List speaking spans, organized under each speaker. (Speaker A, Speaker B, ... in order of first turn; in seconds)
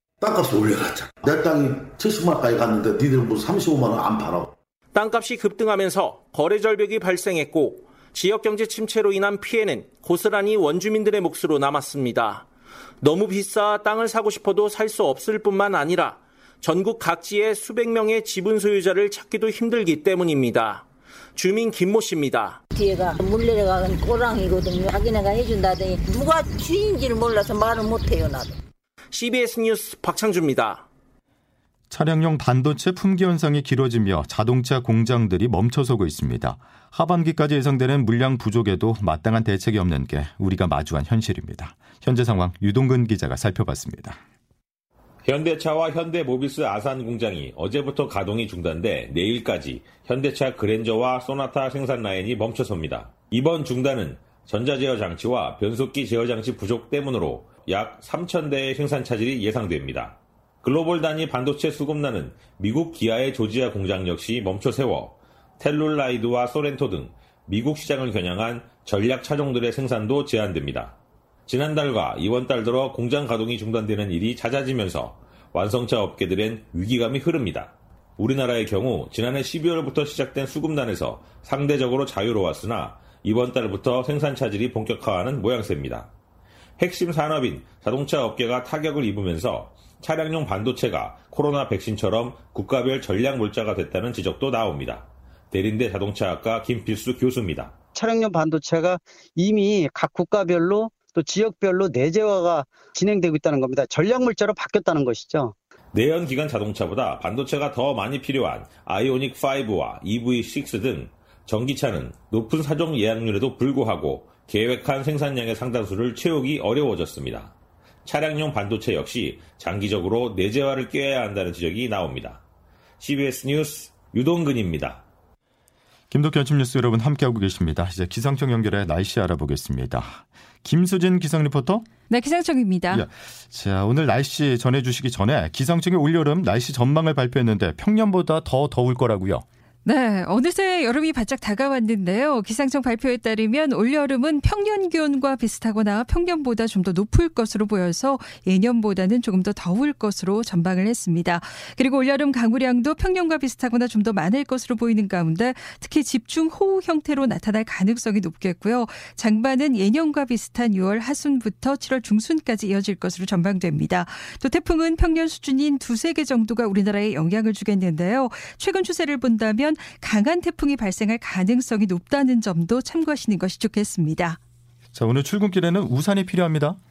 Speaker A: 0.2-4.5
Speaker B: 4.9-12.4, 13.0-20.8, 21.3-22.5, 29.1-30.8
Speaker C: 22.7-28.5
Speaker D: 31.9-44.2, 126.1-131.9, 132.9-139.4, 174.9-176.8
Speaker E: 45.2-70.9, 71.5-86.1, 86.8-97.7, 105.9-117.5, 118.0-122.4, 123.0-125.0
Speaker F: 97.9-105.5
Speaker G: 132.1-133.0, 139.8-174.4